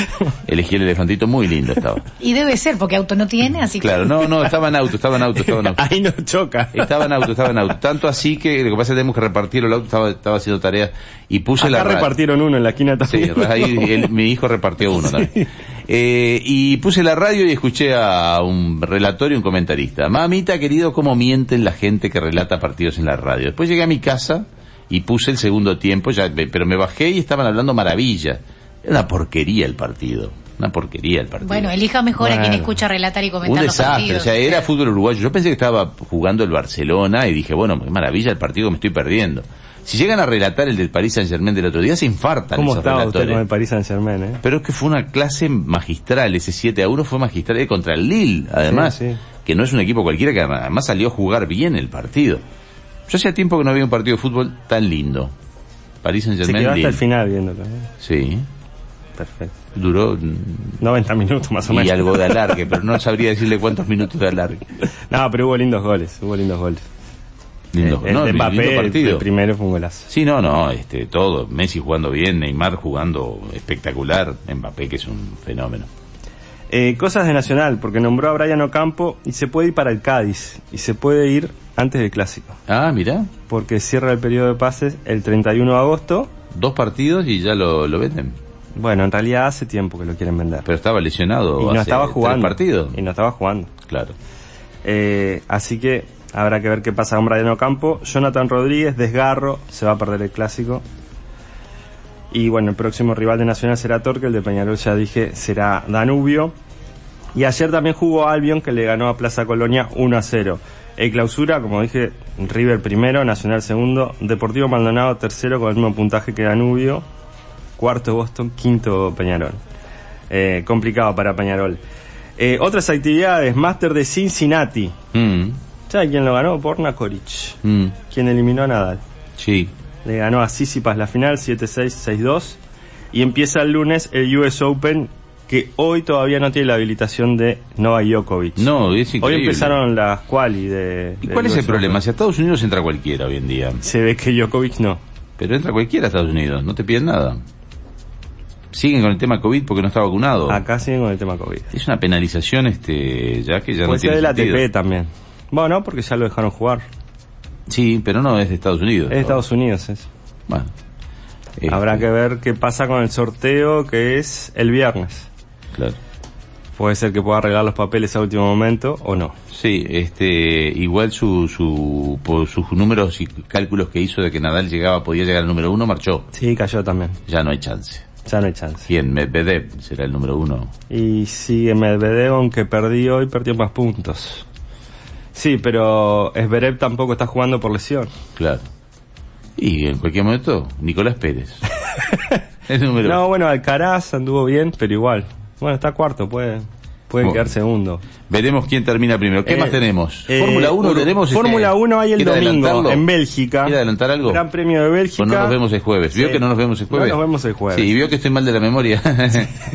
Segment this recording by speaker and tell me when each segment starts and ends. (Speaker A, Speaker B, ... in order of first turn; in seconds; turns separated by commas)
Speaker A: 0.5-2.1, Speaker B: 2.2-4.4, Speaker A: 3.8-5.8, Speaker C: 5.3-7.4, Speaker A: 6.7-12.1, Speaker C: 11.6-14.1, Speaker A: 13.1-31.7, Speaker C: 14.9-15.5, Speaker B: 31.4-34.6, Speaker C: 32.2-32.8, Speaker A: 33.4-43.4, Speaker C: 42.5-44.4, Speaker A: 44.4-52.4, Speaker C: 48.6-49.2, Speaker A: 53.1-55.3, Speaker A: 56.0-57.0, Speaker C: 56.4-57.9, Speaker A: 58.0-58.5, Speaker C: 59.2-59.5, Speaker A: 59.7-60.8, Speaker C: 60.8-62.6, Speaker A: 61.7-64.6, Speaker C: 65.1-66.8, Speaker A: 67.7-69.2, Speaker C: 67.8-70.1, Speaker A: 70.1-75.9, Speaker C: 76.7-82.6, Speaker A: 82.7-83.3, Speaker C: 83.5-86.3, Speaker A: 86.5-88.3, Speaker C: 88.7-90.7, Speaker A: 90.6-93.0, Speaker C: 91.6-93.7, Speaker A: 93.9-94.1, Speaker C: 94.8-100.8, Speaker C: 102.3-106.5, Speaker C: 107.3-117.0, Speaker C: 117.8-119.6, Speaker C: 120.3-121.8, Speaker C: 122.4-124.9, Speaker A: 125.1-125.6, Speaker C: 125.9-129.0, Speaker A: 127.6-127.9, Speaker A: 129.4-129.7, Speaker C: 130.0-132.6, Speaker C: 133.1-142.0, Speaker A: 138.6-139.8, Speaker A: 141.2-143.8, Speaker C: 143.8-145.0, Speaker A: 145.4-147.4, Speaker A: 148.7-150.6, Speaker C: 150.5-151.7, Speaker A: 151.7-154.7, Speaker C: 153.8-156.8, Speaker A: 157.7-159.4, Speaker C: 159.1-160.1, Speaker A: 161.6-162.0, Speaker C: 161.7-165.3, Speaker C: 166.7-169.3, Speaker A: 169.5-176.3, Speaker C: 176.3-177.2, Speaker A: 177.3-178.0, Speaker C: 178.2-178.9, Speaker A: 178.8-180.7, Speaker C: 180.9-184.4, Speaker C: 185.3-188.1, Speaker A: 188.4-188.6, Speaker A: 189.6-191.6, Speaker A: 192.7-193.2, Speaker C: 193.0-198.0, Speaker A: 197.2-197.4, Speaker A: 198.3-203.0, Speaker C: 199.4-205.6, Speaker A: 203.6-204.4, Speaker A: 205.2-207.2, Speaker C: 206.1-207.9, Speaker A: 207.7-209.6